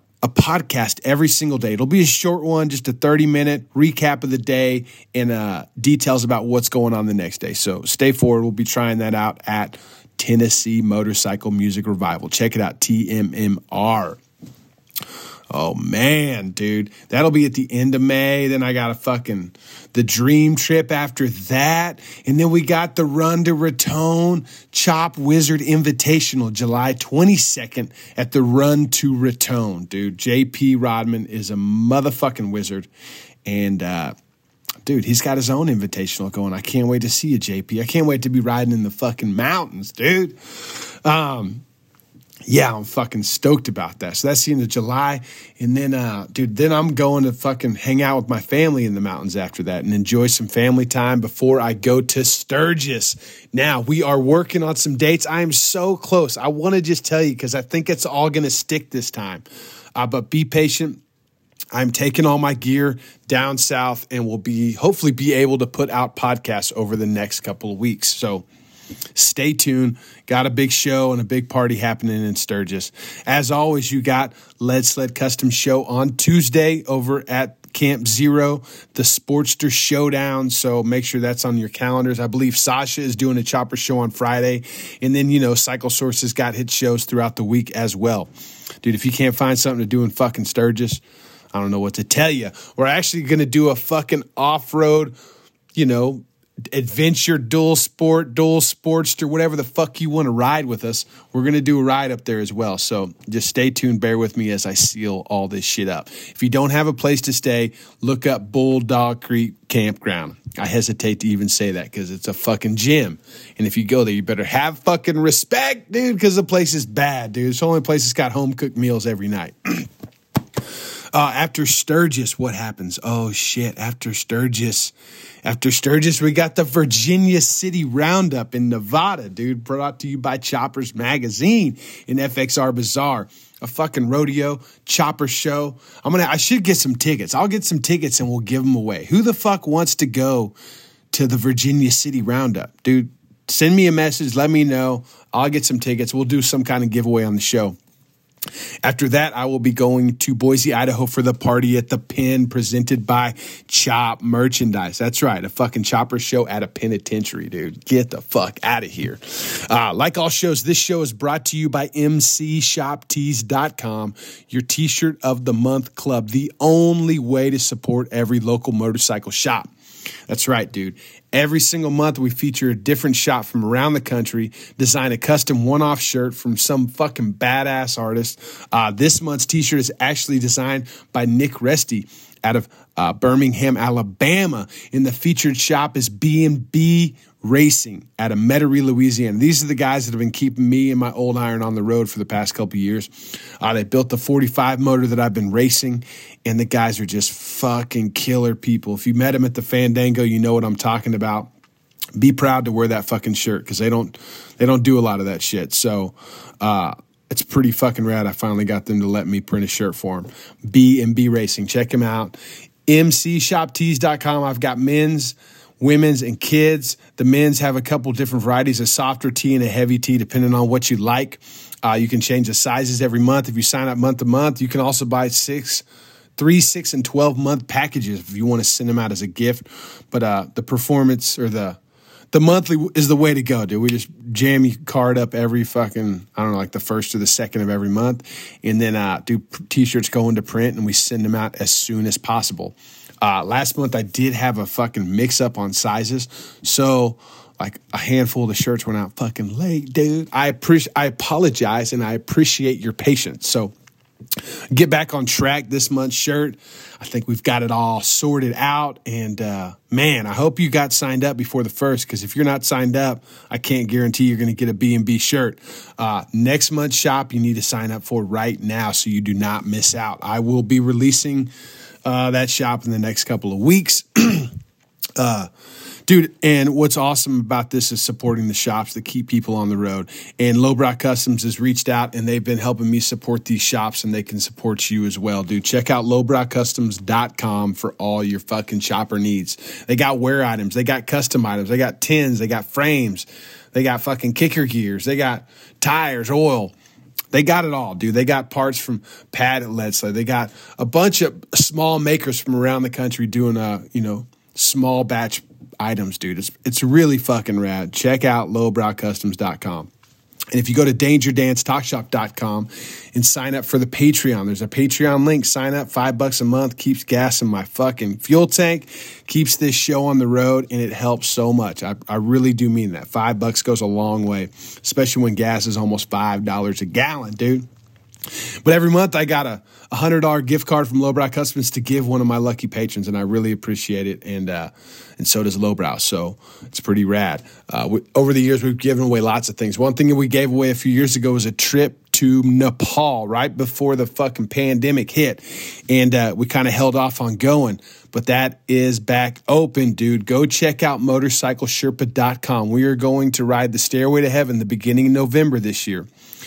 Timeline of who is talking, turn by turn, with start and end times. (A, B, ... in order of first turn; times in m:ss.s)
0:00.2-0:14.2 A
0:15.5-0:32.9 A
0:33.4-0:34.1 A
0:34.8-0:41.6 A
0:42.5-0:59.4 A
0:59.9-1:01.0 A
1:01.7-1:08.4 A
1:09.1-1:28.3 A
1:28.8-1:31.0 A
1:31.5-1:35.1 A
1:35.7-1:59.9 A
2:01.1-2:20.5 A
2:21.1-2:27.8 A
2:28.8-2:49.7 A
2:50.3-3:21.5 A
3:22.2-3:45.8 A
3:46.4-3:51.8 A
3:52.3-4:13.7 A
4:14.7-4:31.5 A
4:32.0-4:34.5 A
4:35.2-4:35.5 A
4:36.0-4:56.7 A
4:57.3-5:09.9 A
5:10.5-5:27.6 A
5:28.3-5:56.1 A